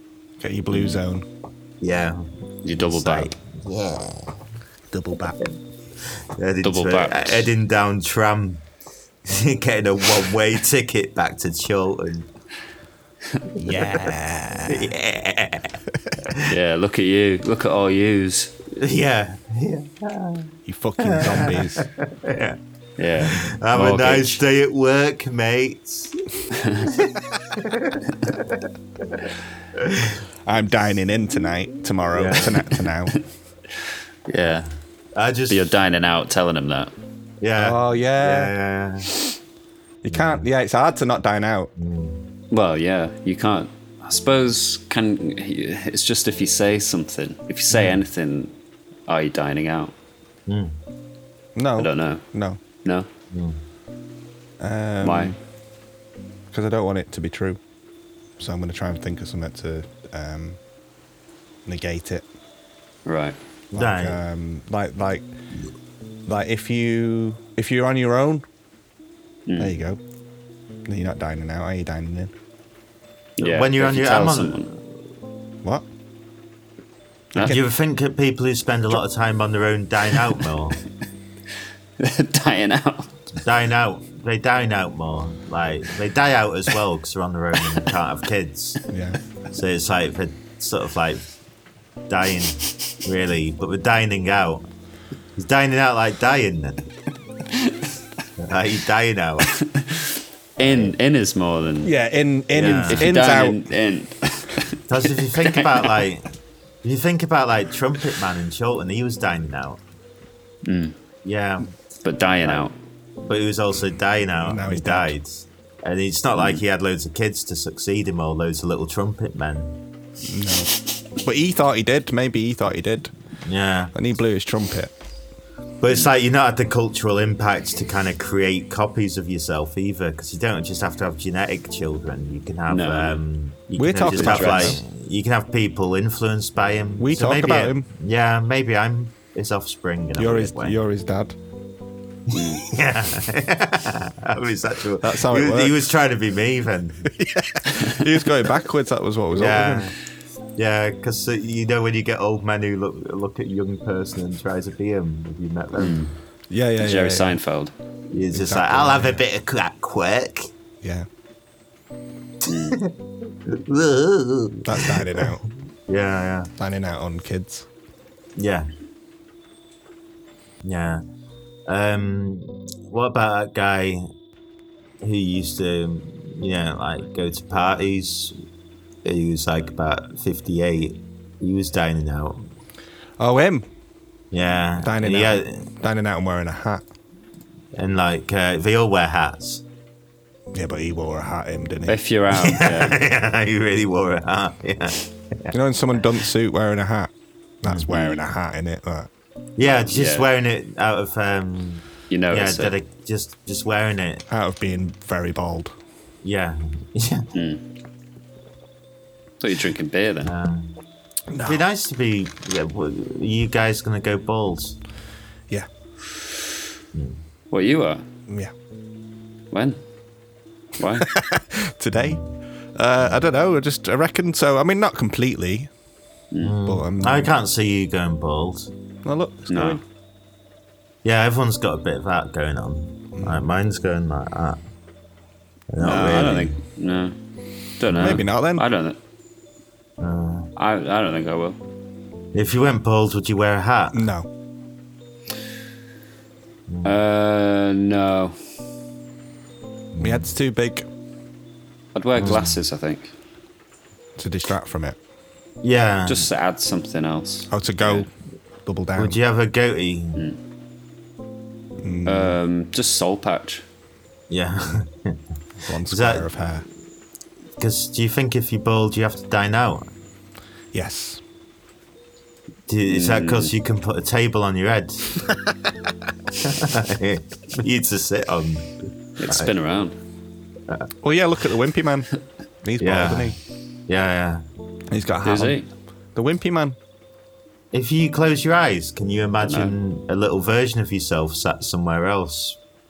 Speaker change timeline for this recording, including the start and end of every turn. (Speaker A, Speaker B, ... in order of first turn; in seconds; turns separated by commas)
Speaker A: 0.4-1.3, Speaker B: 1.8-2.2, Speaker C: 2.6-3.3, Speaker B: 2.8-4.3, Speaker A: 4.9-5.4, Speaker B: 6.3-8.6, Speaker C: 6.6-7.5, Speaker B: 9.3-12.3, Speaker A: 13.6-14.9, Speaker B: 14.7-16.5, Speaker C: 16.4-18.5, Speaker B: 18.7-22.6, Speaker A: 20.7-21.9, Speaker C: 23.0-24.4, Speaker B: 23.2-30.2, Speaker C: 26.5-26.9, Speaker A: 30.5-33.2, Speaker B: 32.1-32.7, Speaker B: 34.3-35.7, Speaker C: 35.5-36.9, Speaker B: 37.4-39.1, Speaker A: 37.6-38.5, Speaker A: 40.0-41.7, Speaker B: 40.1-40.5, Speaker B: 41.8-42.2, Speaker C: 42.5-48.5, Speaker C: 49.1-49.9, Speaker B: 50.5-50.8, Speaker A: 51.6-52.6, Speaker C: 51.8-52.2, Speaker C: 52.8-53.1, Speaker B: 53.3-53.6, Speaker A: 54.6-55.4, Speaker C: 55.0-55.3, Speaker A: 56.5-57.6, Speaker A: 58.4-60.6, Speaker A: 61.7-62.2, Speaker C: 63.1-63.4, Speaker B: 63.7-64.2, Speaker A: 63.7-65.3, Speaker A: 66.3-68.5, Speaker C: 69.5-69.7, Speaker A: 69.6-70.0, Speaker A: 70.9-72.3, Speaker C: 73.4-74.7, Speaker B: 73.4-74.8, Speaker B: 77.4-80.8, Speaker C: 82.0-83.1, Speaker B: 83.4-88.8, Speaker A: 88.9-89.2, Speaker B: 89.5-91.3, Speaker B: 92.1-94.7, Speaker B: 95.4-96.9, Speaker C: 97.5-97.9, Speaker B: 98.4-99.5, Speaker C: 99.5-101.9, Speaker B: 100.6-100.9, Speaker A: 101.8-103.6, Speaker B: 102.5-103.1, Speaker C: 102.6-104.8, Speaker B: 104.9-106.3, Speaker C: 105.4-106.0, Speaker B: 106.8-109.8, Speaker C: 110.7-111.0, Speaker B: 111.2-111.7, Speaker C: 112.0-112.7, Speaker B: 113.2-119.8, Speaker A: 114.4-115.2, Speaker C: 116.4-116.6, Speaker A: 120.2-123.1, Speaker B: 123.5-123.9, Speaker A: 123.9-124.9, Speaker B: 125.8-140.8, Speaker C: 132.7-133.2, Speaker A: 133.8-134.8, Speaker C: 134.1-134.8, Speaker A: 137.0-137.9, Speaker A: 140.2-141.3, Speaker B: 142.3-147.1, Speaker C: 142.3-142.6, Speaker A: 145.0-145.8, Speaker A: 147.1-149.9, Speaker B: 149.3-149.9, Speaker B: 150.6-156.1, Speaker C: 155.8-156.1, Speaker A: 156.5-157.4, Speaker C: 156.8-157.7, Speaker B: 158.1-160.5, Speaker A: 158.3-159.2, Speaker A: 160.8-161.1, Speaker C: 162.5-162.8, Speaker B: 163.5-166.5, Speaker A: 164.6-165.4, Speaker A: 166.6-167.7, Speaker B: 168.4-168.7, Speaker B: 170.6-171.0, Speaker B: 171.7-174.1, Speaker B: 175.0-178.4, Speaker B: 179.1-182.5, Speaker A: 183.2-183.7, Speaker B: 184.3-185.7, Speaker A: 184.8-186.8, Speaker B: 187.8-189.6, Speaker A: 190.5-192.0, Speaker C: 191.9-193.0, Speaker B: 192.3-195.5, Speaker A: 195.5-197.1, Speaker A: 197.6-199.1, Speaker B: 197.7-197.9, Speaker C: 197.9-198.2, Speaker B: 199.6-204.2, Speaker C: 199.9-200.3, Speaker C: 202.1-202.7, Speaker A: 204.3-205.7, Speaker B: 206.2-207.3, Speaker C: 207.3-207.6, Speaker C: 209.4-210.3, Speaker B: 210.2-210.7, Speaker A: 211.3-211.6, Speaker B: 211.4-214.8, Speaker B: 216.9-217.2, Speaker C: 217.5-218.1, Speaker A: 218.3-218.5, Speaker C: 219.5-219.8, Speaker C: 220.8-221.1, Speaker A: 221.0-222.2, Speaker B: 222.0-222.2, Speaker A: 222.8-225.7, Speaker B: 226.4-228.7, Speaker A: 226.7-227.3, Speaker A: 229.0-229.8, Speaker C: 229.5-229.8, Speaker B: 231.0-234.6, Speaker B: 235.7-236.6, Speaker C: 235.8-237.2, Speaker C: 237.8-239.0, Speaker A: 237.9-238.7, Speaker B: 240.0-240.5, Speaker C: 240.6-241.6, Speaker B: 242.3-244.0, Speaker A: 243.9-244.3, Speaker B: 246.7-246.9, Speaker C: 246.8-248.4, Speaker B: 249.9-250.3, Speaker A: 250.0-250.9, Speaker C: 251.9-253.1, Speaker B: 252.2-252.6, Speaker A: 254.2-255.0, Speaker B: 255.6-256.3, Speaker C: 256.1-258.1, Speaker A: 257.5-258.1, Speaker A: 258.6-259.2, Speaker B: 259.0-260.2, Speaker A: 261.8-262.4, Speaker C: 262.1-263.6, Speaker B: 264.3-265.2, Speaker A: 265.7-266.7, Speaker B: 265.9-266.3, Speaker B: 267.6-269.9, Speaker A: 270.7-271.2, Speaker B: 272.7-275.2, Speaker C: 272.9-273.5, Speaker B: 276.4-278.8, Speaker C: 279.2-280.0, Speaker A: 281.0-282.1, Speaker A: 282.6-283.4, Speaker B: 282.8-283.4, Speaker B: 283.9-284.4, Speaker A: 284.9-285.6, Speaker C: 285.2-285.7, Speaker A: 286.1-286.8, Speaker B: 287.7-292.6, Speaker C: 289.4-289.8